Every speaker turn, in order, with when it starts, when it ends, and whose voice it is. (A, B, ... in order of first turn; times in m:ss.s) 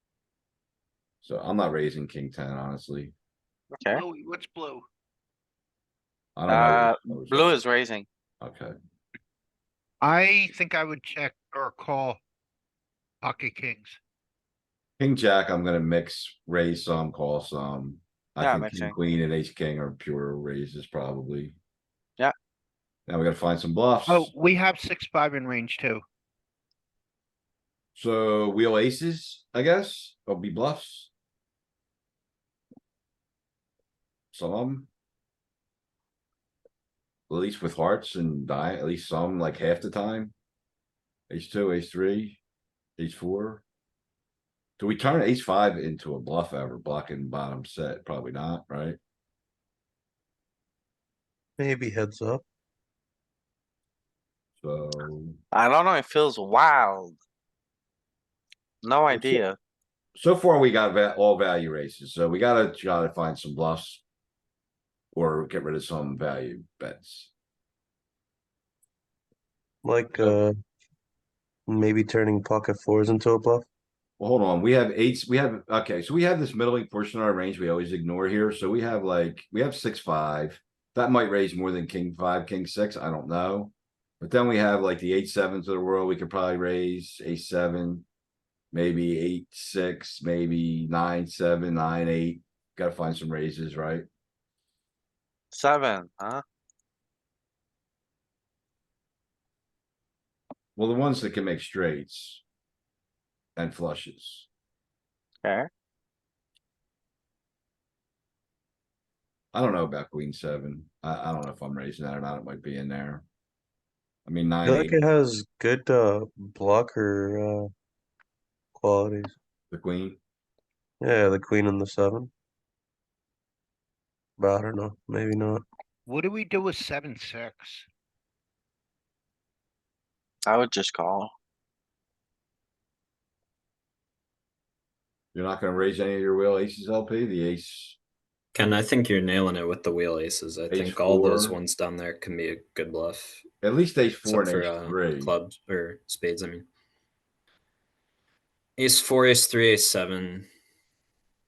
0:01.2-0:03.1 A
0:03.9-0:04.8 B
0:06.4-0:07.6 A
0:06.5-0:08.0 C
0:08.4-0:08.7 A
0:10.0-0:12.2 B
0:13.2-0:14.0 B
0:15.0-0:21.6 A
0:18.4-0:19.0 C
0:23.1-0:24.3 A
0:24.1-0:26.0 B
0:27.9-0:31.1 A
0:34.3-0:34.9 A
0:37.3-0:40.3 A
0:41.3-0:42.4 A
0:43.0-0:43.6 A
0:44.8-0:49.0 A
0:51.6-0:52.4 D
0:54.6-0:55.4 A
0:55.5-0:57.2 C
0:58.8-0:59.6 C
0:59.1-0:59.4 D
1:00.2-1:04.0 A
1:05.1-1:07.3 A
1:09.8-1:10.5 D
1:11.7-1:13.6 D
1:14.2-1:28.0 A
1:28.7-1:34.0 A
1:35.5-1:36.4 C
1:40.8-1:42.4 A
1:43.6-1:44.5 A
1:45.4-1:45.7 C
1:49.5-1:53.2 A
1:54.2-1:55.0 A
1:54.6-1:57.7 D
1:58.7-1:59.3 D
1:59.7-2:00.2 A
2:01.0-2:02.3 D
2:04.4-2:05.6 D
2:06.1-2:07.8 B
2:10.4-2:11.3 C
2:15.3-2:18.0 A
2:18.5-2:23.4 E
2:20.7-2:21.6 A
2:23.6-2:25.3 A
2:24.2-2:26.7 E
2:28.8-2:30.5 E